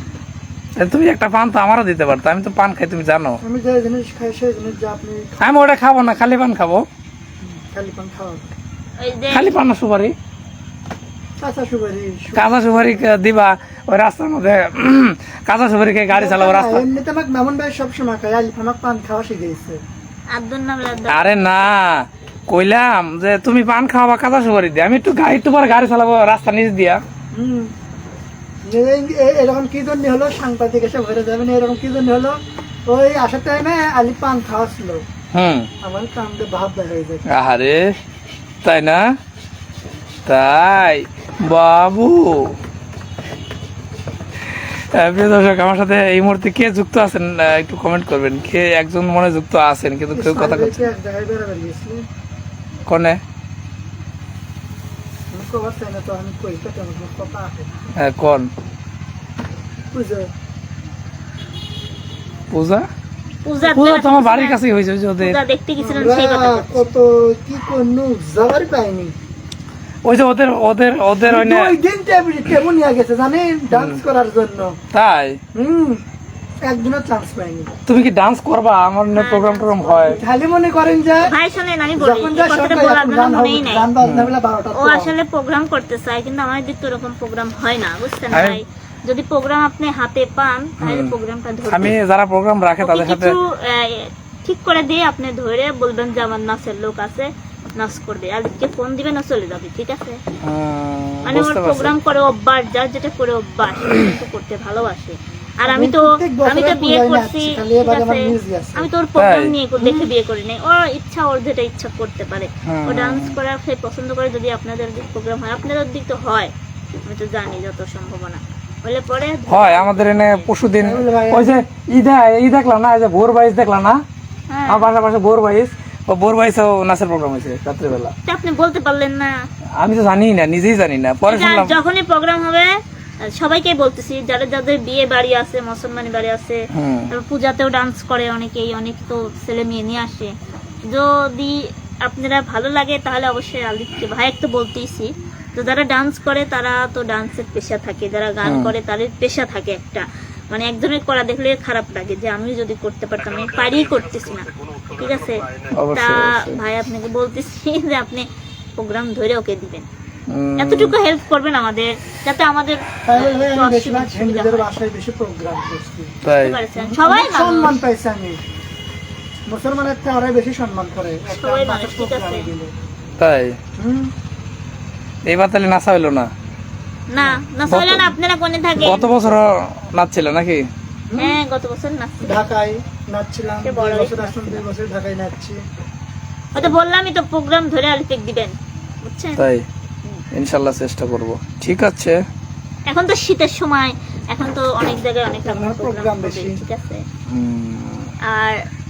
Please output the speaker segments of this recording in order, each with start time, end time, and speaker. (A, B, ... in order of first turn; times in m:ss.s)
0:00.8-0:03.4 A
0:03.4-0:05.7 B
0:05.4-0:06.9 A
0:07.4-0:08.5 B
0:09.0-0:09.6 C
0:09.3-0:10.1 A
0:11.4-0:13.0 B
0:12.3-0:16.8 A
0:16.1-0:19.8 B
0:20.3-0:21.4 C
0:21.1-0:27.0 A
0:27.3-0:27.7 B
0:28.6-0:35.0 B
0:35.3-0:35.7 A
0:35.8-0:37.2 B
0:37.3-0:37.9 A
0:38.6-0:39.0 A
0:40.2-0:42.5 A
0:44.5-0:50.9 A
0:50.1-0:52.0 B
0:52.9-0:53.2 A
0:55.3-0:57.7 B
0:58.0-0:58.5 A
0:59.9-1:00.3 B
1:02.5-1:02.8 A
1:03.4-1:04.6 C
1:03.6-1:05.4 A
1:05.2-1:06.9 C
1:05.8-1:09.1 B
1:10.0-1:11.7 A
1:11.3-1:14.8 B
1:13.7-1:14.0 A
1:14.9-1:15.4 A
1:15.5-1:16.0 B
1:16.6-1:17.7 B
1:17.9-1:20.2 A
1:19.1-1:20.2 C
1:20.0-1:21.3 B
1:21.2-1:23.9 C
1:22.0-1:25.1 B
1:24.0-1:24.3 A
1:24.7-1:31.9 C
1:28.3-1:28.6 A
1:30.8-1:31.1 A
1:31.6-1:33.3 A
1:32.8-1:40.2 C
1:40.4-1:42.0 A
1:41.2-1:56.5 C
1:45.6-1:48.9 B
1:49.2-1:49.6 A
1:49.8-1:50.0 B
1:52.6-1:53.3 A
1:57.0-2:00.5 C
1:59.5-2:04.0 A
2:00.8-2:01.5 B
2:04.5-2:04.9 C
2:04.7-2:08.1 A
2:08.3-2:09.3 C
2:09.8-2:11.8 A
2:11.2-2:12.7 C
2:13.2-2:20.3 C
2:16.7-2:17.1 A
2:20.9-2:38.2 C
2:28.4-2:28.7 A
2:35.7-2:36.6 A
2:38.8-2:39.8 C
2:40.3-2:40.9 A
2:40.6-2:44.7 C
2:43.0-2:46.2 B
2:46.2-2:46.6 A
2:46.3-2:47.8 C
2:46.8-2:48.4 B
2:49.5-2:52.7 B
2:51.3-2:52.5 C
2:53.2-2:53.6 A
2:53.8-2:54.1 B
2:55.2-2:56.3 A
2:57.1-2:59.2 C
2:57.7-2:58.1 A
2:58.8-2:59.2 B
2:58.8-3:00.7 A
3:01.1-3:01.4 B
3:01.2-3:02.5 C
3:02.2-3:05.6 B
3:03.6-3:04.6 C
3:06.5-3:09.4 C
3:09.4-3:09.6 A
3:10.3-3:12.2 A
3:12.9-3:17.0 C
3:15.4-3:16.6 B
3:17.3-3:18.1 A
3:18.2-3:18.6 C